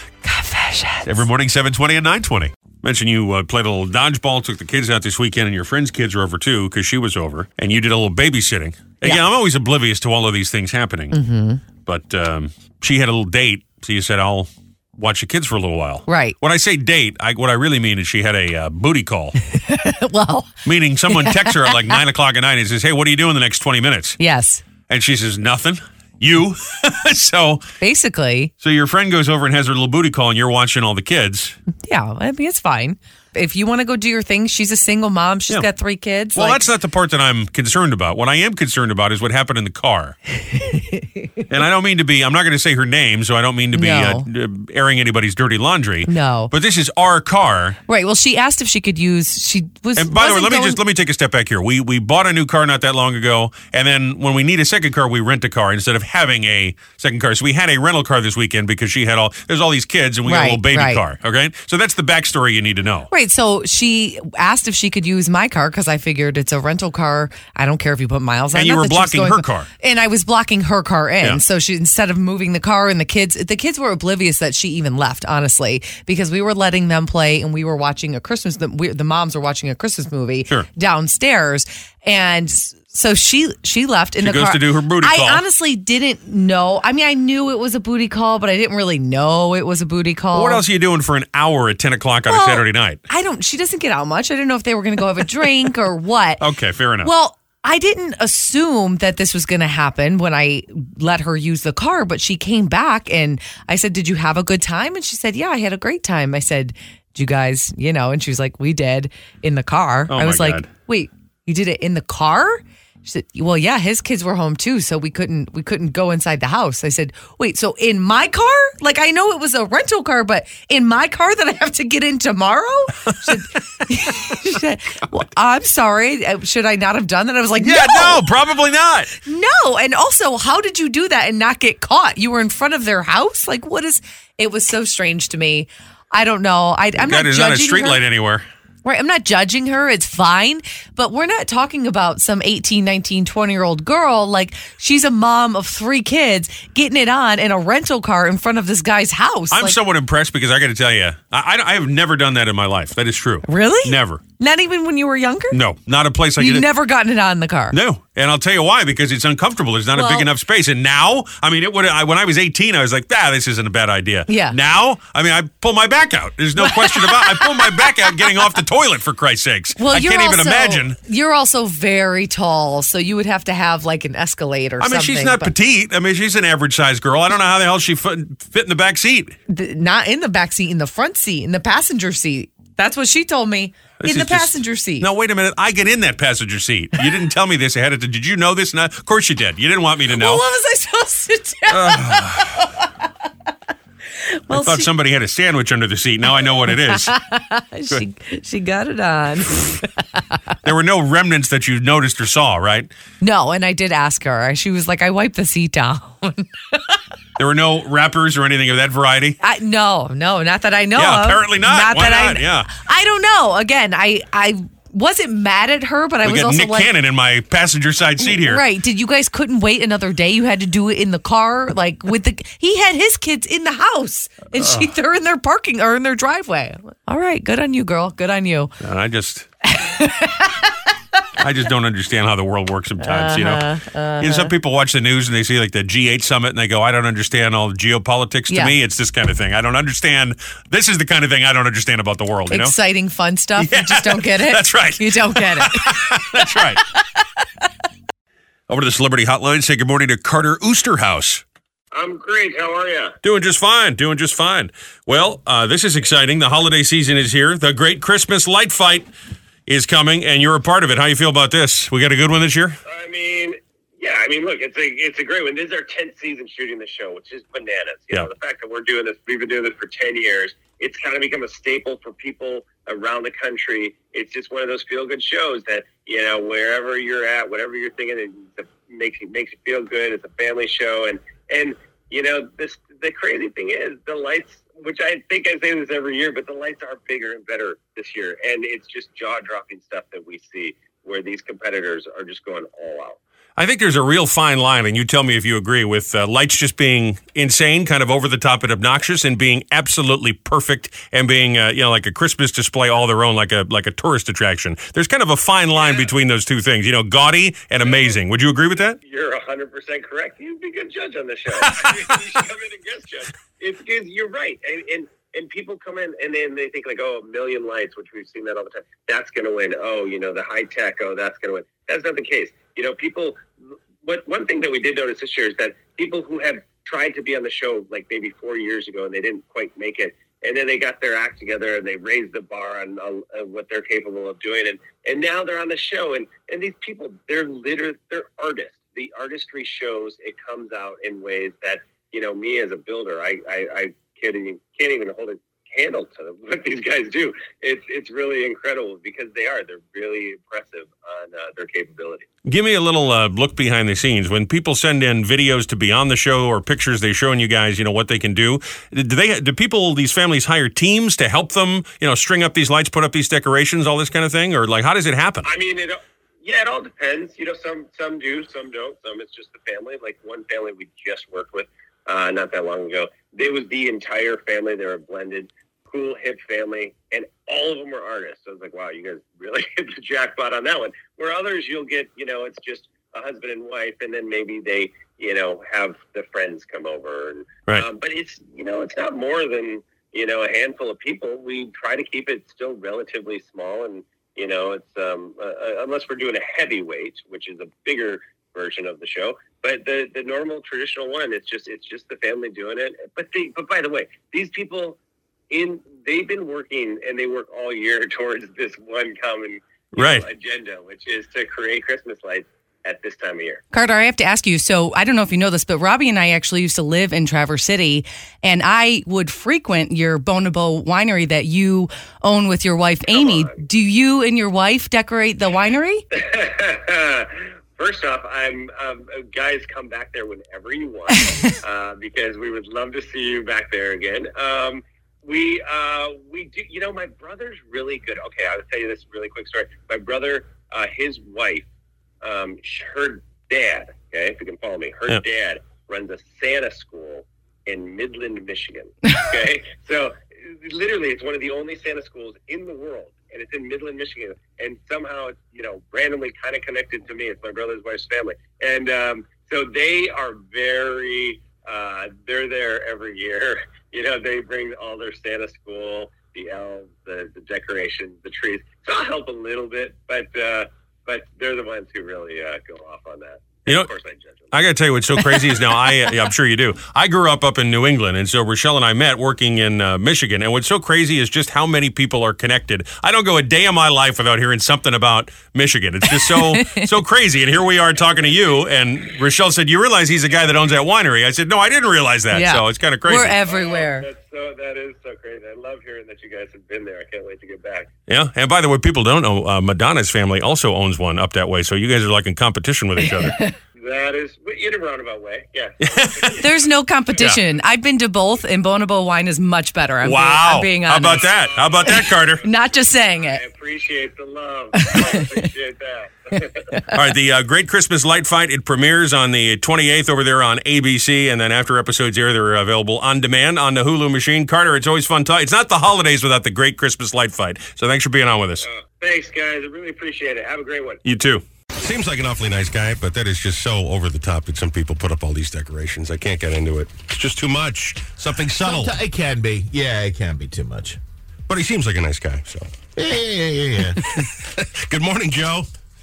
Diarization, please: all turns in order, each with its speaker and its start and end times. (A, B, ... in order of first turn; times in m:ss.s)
0:00.2-0:01.1 A
0:01.0-0:11.2 B
0:11.1-0:11.6 A
0:11.8-0:19.4 B
0:16.1-0:16.4 A
0:19.5-0:20.5 A
0:20.6-0:24.2 B
0:21.1-0:22.0 A
0:24.2-0:24.6 A
0:24.9-0:27.6 B
0:27.8-0:28.5 A
0:28.6-0:31.6 B
0:31.8-0:36.6 A
0:36.3-0:40.1 B
0:40.4-0:41.3 A
0:41.5-0:47.8 B
0:43.7-0:44.2 A
0:46.1-0:46.5 A
0:47.9-0:50.8 A
0:50.0-1:03.1 B
1:00.2-1:01.0 A
1:03.1-1:30.6 A
1:08.5-1:09.7 B
1:24.2-1:25.4 B
1:30.3-1:33.0 B
1:32.3-1:36.4 A
1:36.4-1:37.1 B
1:37.0-2:08.2 A
1:50.1-1:50.7 B
2:07.6-2:09.1 B
2:09.2-2:18.0 A
2:17.0-2:18.4 B
2:18.8-2:29.8 A
2:29.5-2:34.2 B
2:33.4-2:35.6 A
2:35.5-2:36.6 B
2:36.4-2:37.8 A
2:37.7-2:51.0 B
2:39.9-2:40.3 A
2:44.3-2:44.6 A
2:46.6-2:48.3 A
2:49.8-2:55.5 A
2:54.8-2:59.3 B
2:59.5-3:05.1 A
3:04.0-3:10.4 B
3:10.1-3:12.7 A
3:11.7-3:12.7 B
3:14.3-3:14.9 A
3:14.5-3:17.1 B
3:16.6-3:20.2 A
3:20.6-3:22.9 B
3:23.2-3:27.0 A
3:27.4-3:29.4 B
3:29.4-3:36.9 A
3:31.0-3:32.7 B
3:36.2-3:38.6 B
3:38.2-3:48.7 A
3:48.8-3:49.5 B
3:49.6-3:50.7 A
3:51.4-3:53.6 B
3:53.0-3:54.5 A
3:54.2-4:02.7 B
3:58.5-3:58.7 A
4:02.5-4:07.0 A
4:03.6-4:06.8 B
4:08.7-4:11.4 B
4:11.9-4:13.1 C
4:13.2-4:19.1 B
4:19.7-4:22.8 B
4:22.8-4:53.2 C
4:53.6-5:09.0 B
5:05.8-5:06.1 C
5:07.8-5:08.2 C
5:09.0-5:23.5 C
5:11.6-5:12.2 B
5:24.0-5:52.3 C
5:52.4-6:05.5 B
6:05.4-6:45.0 C
6:45.5-6:53.6 C
6:49.9-6:50.2 B
6:53.7-7:06.0 A
7:03.1-7:03.5 C
7:06.1-7:21.6 C
7:11.2-7:11.5 A
7:22.2-7:54.6 C
7:54.5-8:13.4 B
8:06.1-8:06.9 A
8:12.3-8:14.1 A
8:13.4-8:17.9 C
8:18.1-8:23.4 B
8:23.0-8:23.5 A
8:23.8-8:26.5 C
8:25.8-8:26.4 B
8:26.4-8:31.3 A
8:30.0-8:32.4 B
8:31.1-8:32.5 C
8:31.8-8:33.4 A
8:33.2-8:36.7 C
8:34.8-8:35.4 A
8:36.9-8:48.6 B
8:48.6-8:51.0 C
8:51.0-8:51.4 B
8:51.8-8:58.9 D
8:58.6-9:01.0 E
9:01.5-9:02.7 D
9:03.0-9:04.0 E
9:04.1-9:05.7 D